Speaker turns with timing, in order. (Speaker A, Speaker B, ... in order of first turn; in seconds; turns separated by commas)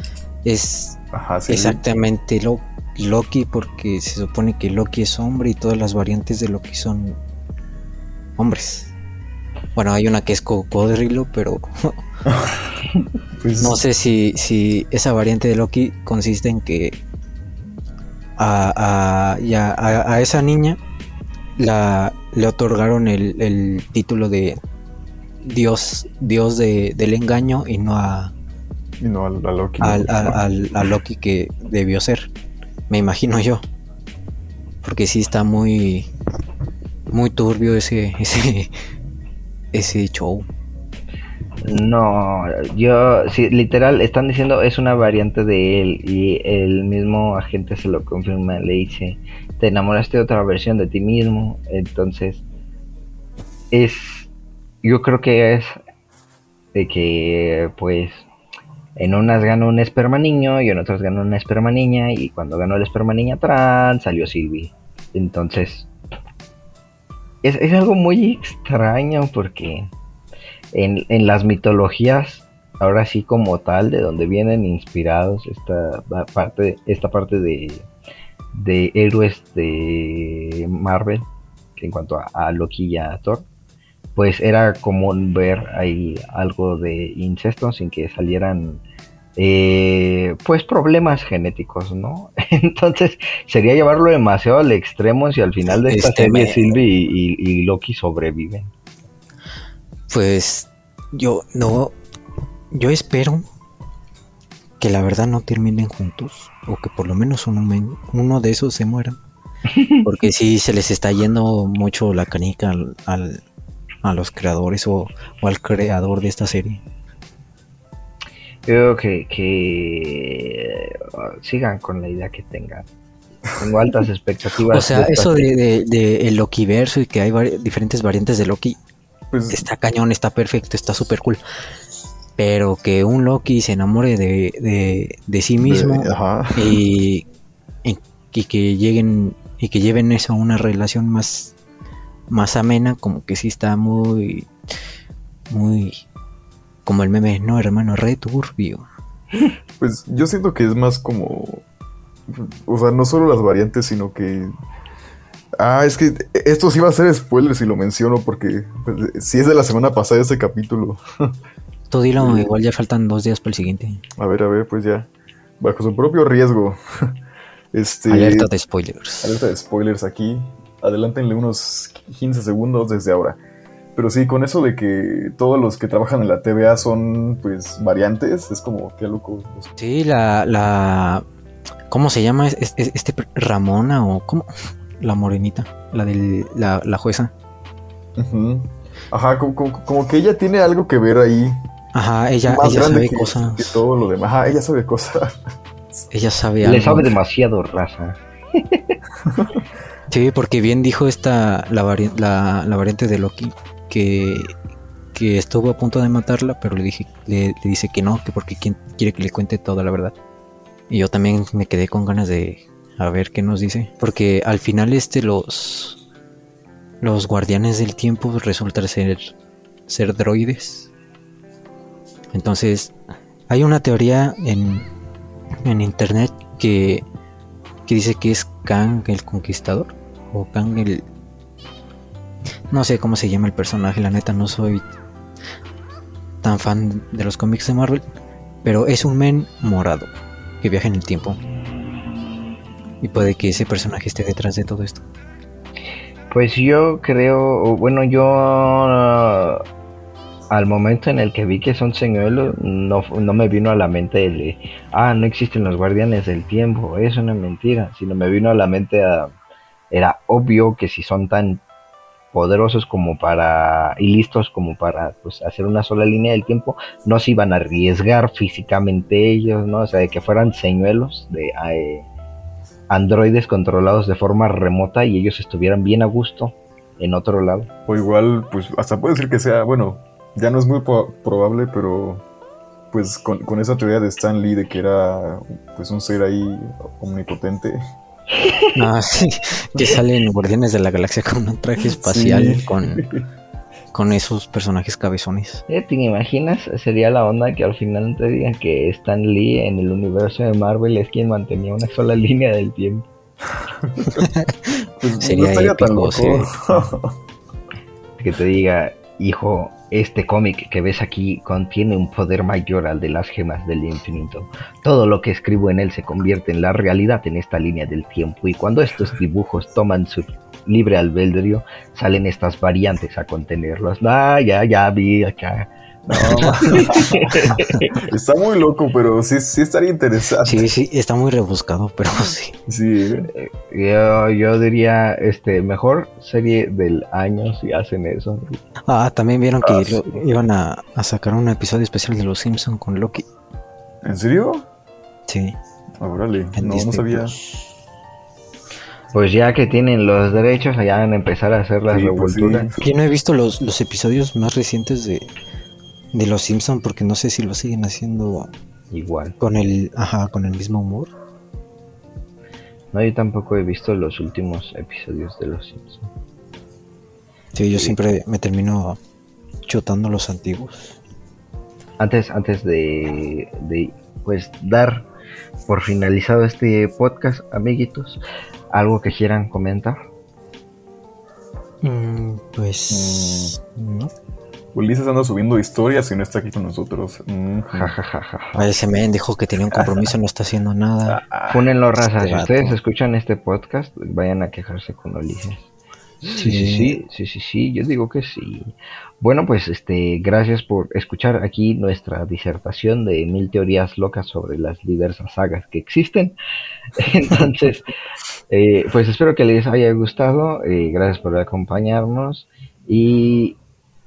Speaker A: 0.4-7.2, Speaker B: 1.1-1.8, Speaker A: 8.4-8.9, Speaker A: 9.8-12.0, Speaker B: 12.3-12.6, Speaker B: 13.4-13.8, Speaker A: 13.6-17.0, Speaker A: 18.4-20.8, Speaker A: 21.6-24.6, Speaker A: 25.4-28.3, Speaker B: 29.0-30.5, Speaker A: 29.8-32.3, Speaker A: 32.9-33.6, Speaker A: 34.8-36.1, Speaker A: 37.1-38.7, Speaker A: 39.7-40.5, Speaker C: 41.6-52.5, Speaker C: 53.7-54.3, Speaker C: 54.8-55.8, Speaker C: 56.7-58.3, Speaker C: 59.0-65.9, Speaker C: 67.4-69.9, Speaker C: 70.7-77.9, Speaker C: 78.5-83.5, Speaker C: 84.2-88.8, Speaker C: 89.4-98.7, Speaker A: 95.7-96.7, Speaker A: 100.1-102.0, Speaker A: 102.7-103.5, Speaker A: 104.8-109.2, Speaker C: 109.7-110.0, Speaker A: 110.0-113.4, Speaker A: 114.0-116.8, Speaker C: 118.7-122.9, Speaker C: 123.6-125.5, Speaker A: 124.7-128.8, Speaker B: 129.3-129.7, Speaker A: 129.5-131.4, Speaker A: 132.4-137.3, Speaker B: 135.6-136.8, Speaker A: 137.8-141.6, Speaker A: 142.3-144.5, Speaker A: 145.5-146.0, Speaker A: 146.8-148.9, Speaker B: 149.8-151.7, Speaker B: 152.3-154.5, Speaker B: 155.6-161.0, Speaker A: 161.9-164.0, Speaker B: 162.2-162.5, Speaker B: 164.2-165.1, Speaker B: 165.6-167.2, Speaker B: 167.7-168.5, Speaker A: 168.1-169.4, Speaker B: 169.2-173.4, Speaker B: 174.0-179.7, Speaker A: 179.8-181.2, Speaker A: 181.9-184.5, Speaker A: 185.0-187.3, Speaker B: 188.2-191.6, Speaker A: 191.9-193.8, Speaker B: 192.5-195.4, Speaker A: 196.1-197.1, Speaker C: 196.6-199.0, Speaker B: 199.2-199.6, Speaker A: 200.1-204.5, Speaker A: 205.1-210.2, Speaker A: 210.9-216.0, Speaker A: 217.0-219.4, Speaker A: 219.9-220.9, Speaker A: 222.3-222.9, Speaker A: 223.5-224.9, Speaker A: 225.6-227.1, Speaker A: 227.9-231.0, Speaker A: 232.7-234.8, Speaker A: 236.4-238.0, Speaker A: 238.6-241.4, Speaker A: 243.0-245.1, Speaker C: 246.3-249.6, Speaker C: 250.5-259.3, Speaker C: 259.9-261.6, Speaker C: 262.3-272.1, Speaker C: 272.9-277.7, Speaker B: 277.9-282.2, Speaker B: 282.9-287.8, Speaker C: 288.4-288.7, Speaker A: 288.8-293.1, Speaker B: 291.9-293.2, Speaker A: 293.9-295.6, Speaker C: 295.7-303.1, Speaker B: 303.7-304.2, Speaker B: 305.0-307.1, Speaker A: 305.2-306.5, Speaker C: 308.2-328.0, Speaker B: 326.1-330.7, Speaker A: 326.4-326.6, Speaker A: 327.5-327.8, Speaker A: 330.4-332.6, Speaker B: 332.7-333.3, Speaker C: 333.3-338.6, Speaker A: 338.9-343.3, Speaker B: 339.6-340.2, Speaker B: 344.0-344.6, Speaker A: 345.3-345.6, Speaker B: 346.0-347.4, Speaker A: 346.6-347.4, Speaker C: 349.1-352.7, Speaker B: 351.9-352.8, Speaker A: 352.8-355.3, Speaker A: 356.1-358.5, Speaker C: 358.9-359.4, Speaker A: 359.4-361.1, Speaker C: 362.9-366.1, Speaker A: 367.6-369.0, Speaker A: 369.7-371.0, Speaker C: 372.0-375.1, Speaker C: 375.7-378.2, Speaker C: 378.7-380.0, Speaker A: 381.8-383.7, Speaker B: 382.9-384.0, Speaker B: 384.7-387.9, Speaker C: 387.7-388.7, Speaker A: 388.6-391.2, Speaker B: 391.1-391.7, Speaker C: 391.5-395.7, Speaker A: 392.0-392.8, Speaker C: 396.2-406.4, Speaker A: 396.3-397.0, Speaker C: 407.0-407.9, Speaker C: 408.5-413.6